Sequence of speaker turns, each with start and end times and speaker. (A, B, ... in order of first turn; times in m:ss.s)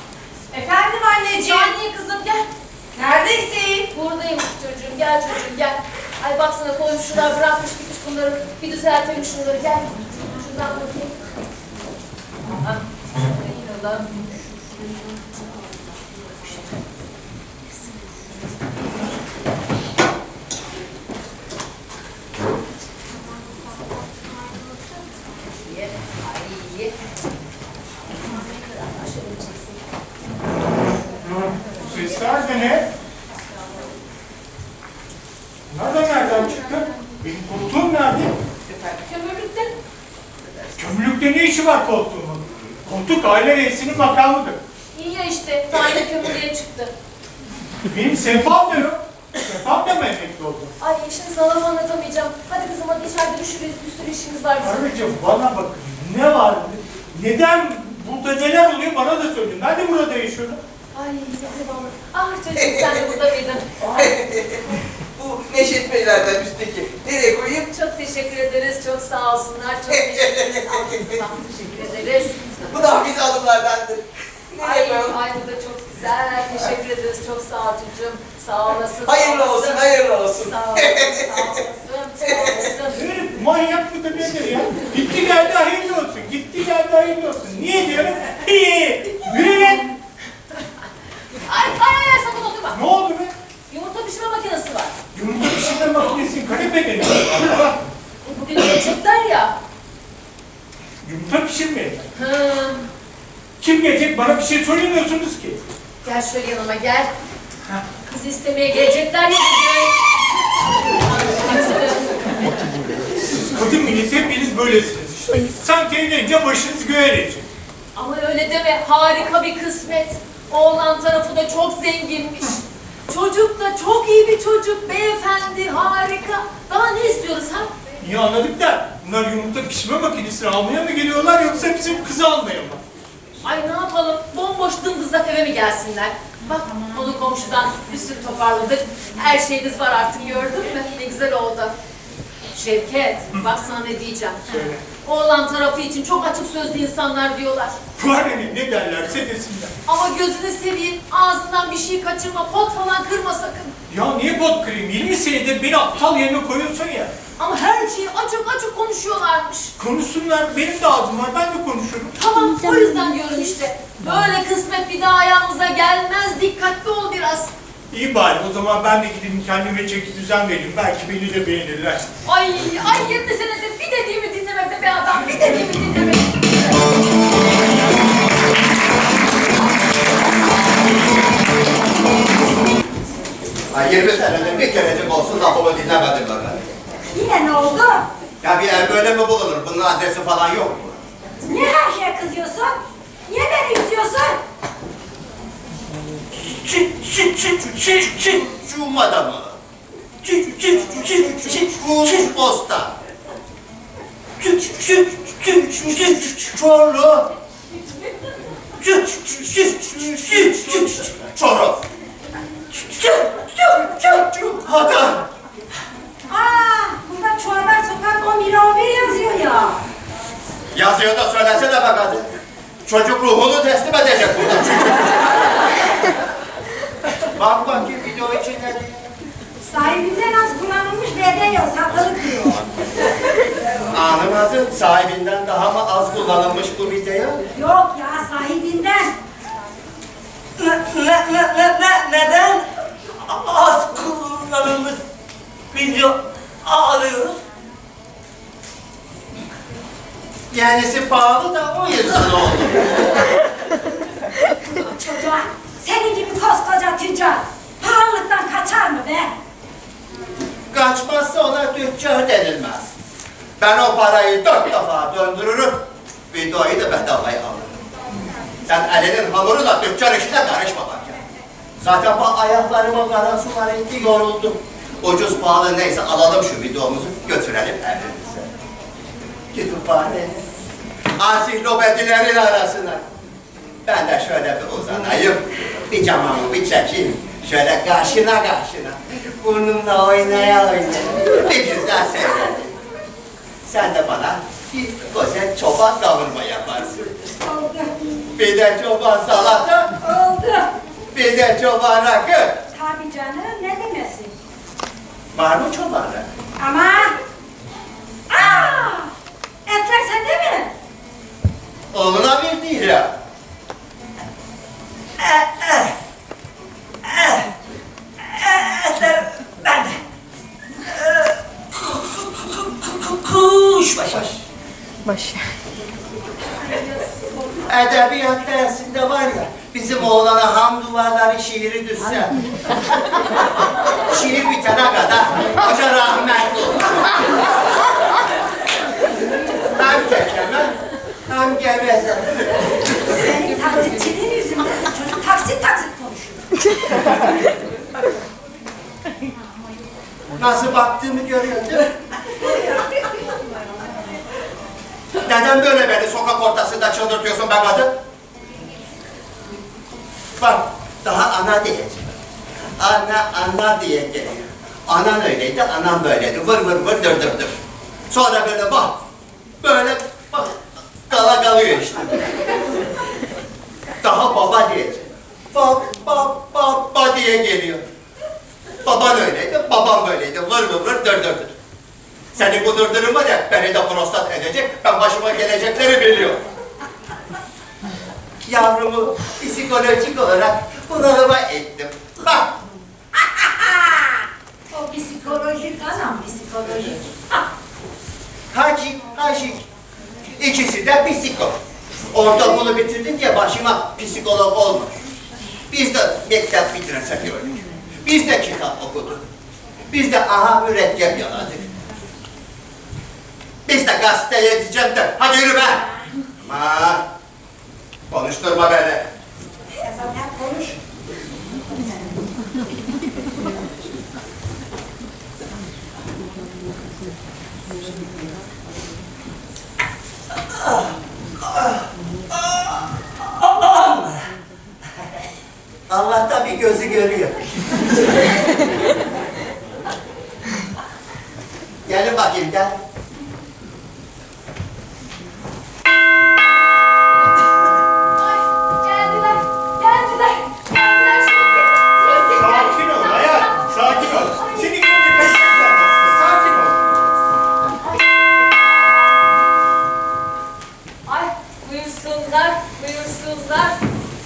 0:00.5-0:01.7 A
0:01.4-0:02.5 B
0:02.9-0:03.9 A
0:03.9-0:11.2 B
0:12.5-0:14.1 B
0:25.6-0:26.9 B
0:28.7-0:29.8 B
0:31.2-0:32.8 C
0:35.7-0:38.3 C
0:38.8-0:39.7 B
0:40.8-0:44.6 C
0:44.9-0:46.9 B
0:47.8-0:50.7 C
0:50.8-0:54.8 B
0:54.6-1:00.6 C
1:00.9-1:04.1 B
1:02.7-1:03.0 D
1:04.0-1:07.6 D
1:07.6-1:12.9 B
1:09.9-1:11.2 D
1:12.7-1:15.2 D
1:14.6-1:23.0 B
1:19.0-1:21.5 D
1:22.3-1:22.6 D
1:22.9-1:30.0 C
1:31.4-1:32.8 B
1:32.7-1:33.3 C
1:33.7-1:35.0 B
1:35.1-1:37.8 C
1:38.2-1:39.5 B
1:41.0-1:42.1 C
1:42.2-1:42.8 B
1:43.6-1:45.6 C
1:46.0-1:47.1 B
1:48.1-1:50.0 B
1:50.7-1:52.2 B
1:53.0-1:57.5 C
1:57.9-2:07.7 B
2:08.0-2:12.8 C
2:13.4-2:21.7 B
2:22.5-2:24.4 B
2:24.5-2:24.8 C
2:25.0-2:27.8 B
2:28.0-2:29.7 C
2:29.8-2:33.7 B
2:33.9-2:37.1 C
2:37.4-2:39.7 B
2:39.8-2:42.1 C
2:42.1-2:47.5 B
2:47.9-2:52.1 C
2:52.2-2:56.6 B
3:03.7-3:06.7 D
3:07.1-3:08.1 A
3:08.4-3:11.0 D
3:11.4-3:14.4 A
3:16.3-3:19.6 D
3:20.2-3:22.9 D
3:24.4-3:27.3 D
3:28.8-3:31.8 D
3:32.7-3:35.2 D
3:36.3-3:39.8 A
3:40.7-3:42.3 D
3:42.8-3:45.2 D
3:47.3-3:49.1 D
3:49.6-3:52.6 A
3:53.9-3:57.4 D
3:57.5-3:59.1 A
4:00.6-4:02.6 D
4:03.2-4:05.0 D
4:05.7-4:07.4 D
4:10.5-4:13.2 D
4:14.7-4:19.3 A
4:20.7-4:22.9 D
4:23.6-4:27.8 D
4:28.7-4:31.2 D
4:31.8-4:38.5 D
4:39.5-4:40.3 D
4:41.2-4:43.0 D
4:43.8-4:52.6 D
4:53.6-4:57.1 D
4:57.4-4:58.4 A
4:58.4-4:59.9 D
4:59.9-5:00.7 A
5:01.1-5:02.6 D
5:02.7-5:04.3 A
5:05.3-5:06.3 D
5:06.6-5:07.2 A
5:08.3-5:09.1 A
5:09.6-5:10.7 A
5:11.9-5:13.1 D
5:15.2-5:15.9 D
5:17.0-5:17.5 D
5:18.2-5:20.0 D
5:20.8-5:24.4 D
5:26.5-5:27.6 A
5:27.6-5:33.4 D
5:33.9-5:37.5 D
5:39.6-5:40.7 D
5:41.3-5:42.9 D
5:43.0-5:46.5 A
5:50.4-5:51.9 D
5:52.4-5:53.2 A
5:55.1-5:57.9 D
6:00.4-6:02.2 D
6:02.8-6:07.6 D
6:08.1-6:09.0 D
6:09.6-6:10.6 D
6:11.1-6:12.7 D
6:14.0-6:17.8 D
6:18.8-6:21.5 D
6:22.3-6:26.4 D
6:28.4-6:32.5 D
6:33.1-6:34.2 D
6:34.7-6:37.4 A
6:38.5-6:39.6 D
6:40.4-6:41.6 D
6:42.1-6:44.9 D
6:45.7-6:49.2 D
6:49.9-6:51.7 D
6:53.7-6:55.9 D
6:56.4-6:57.0 D
6:58.1-6:59.1 D
6:59.8-7:00.8 A
7:10.5-7:10.9 D
7:11.4-7:14.2 D
7:15.9-7:18.0 D
7:21.8-7:22.8 D
7:28.2-7:34.7 B
7:32.4-7:36.9 C
7:37.8-7:39.2 B
7:41.0-7:43.8 B